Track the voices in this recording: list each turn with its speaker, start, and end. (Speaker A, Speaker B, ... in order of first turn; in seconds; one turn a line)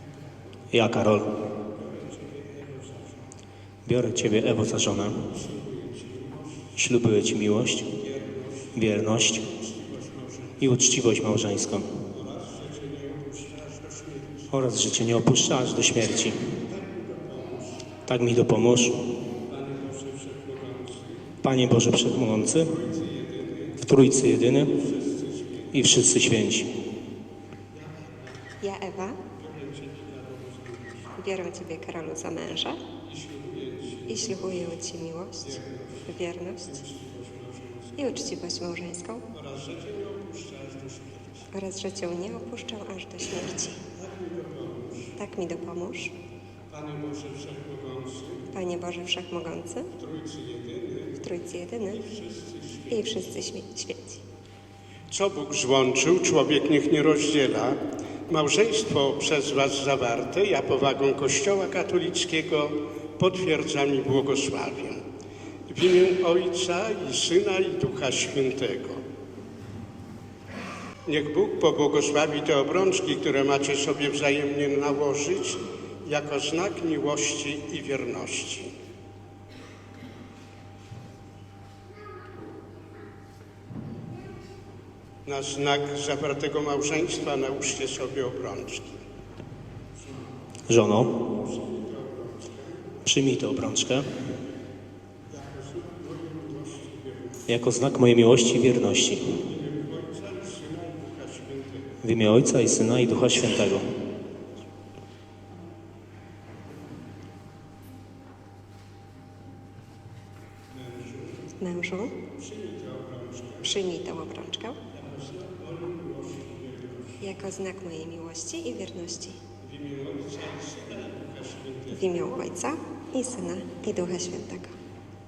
Speaker A: 0.7-1.4
Speaker B: 1.6-3.2
Speaker A: 3.9-5.3
Speaker B: 5.2-6.7
Speaker A: 6.8-7.9
Speaker B: 7.9-8.8
Speaker A: 8.8-9.5
Speaker B: 9.4-10.6
Speaker A: 10.6-12.1
Speaker B: 12.1-14.5
Speaker A: 14.5-16.5
Speaker B: 16.5-17.9
Speaker A: 18.1-19.1
Speaker B: 19.4-21.3
Speaker A: 21.4-22.8
Speaker B: 22.6-23.8
Speaker A: 23.8-24.8
Speaker B: 24.6-25.7
Speaker A: 25.7-26.7
Speaker B: 27.7-28.5
Speaker C: 28.6-29.2
Speaker B: 29.3-31.1
Speaker C: 31.2-32.8
Speaker B: 33.0-34.8
Speaker C: 34.1-36.8
Speaker B: 35.4-38.1
Speaker C: 38.0-39.3
Speaker B: 39.3-41.5
Speaker C: 41.5-43.8
Speaker B: 43.9-45.2
Speaker C: 45.2-46.2
Speaker B: 46.7-48.5
Speaker C: 48.5-49.9
Speaker B: 49.9-51.2
Speaker C: 51.2-52.0
Speaker B: 51.9-53.2
Speaker C: 52.9-54.2
Speaker B: 55.1-65.0
Speaker B: 65.7-69.0
Speaker B: 71.0-78.8
Speaker B: 85.2-89.0
Speaker A: 90.7-91.2
Speaker B: 91.0-93.0
Speaker A: 93.0-94.2
Speaker B: 95.3-97.5
Speaker A: 97.5-99.4
Speaker B: 99.4-102.0
Speaker A: 102.0-103.9
Speaker B: 110.7-111.5
Speaker C: 111.6-112.2
Speaker B: 112.3-113.8
Speaker C: 113.6-114.8
Speaker B: 114.9-117.4
Speaker C: 117.2-119.4
Speaker B: 119.6-122.2
Speaker C: 121.9-124.8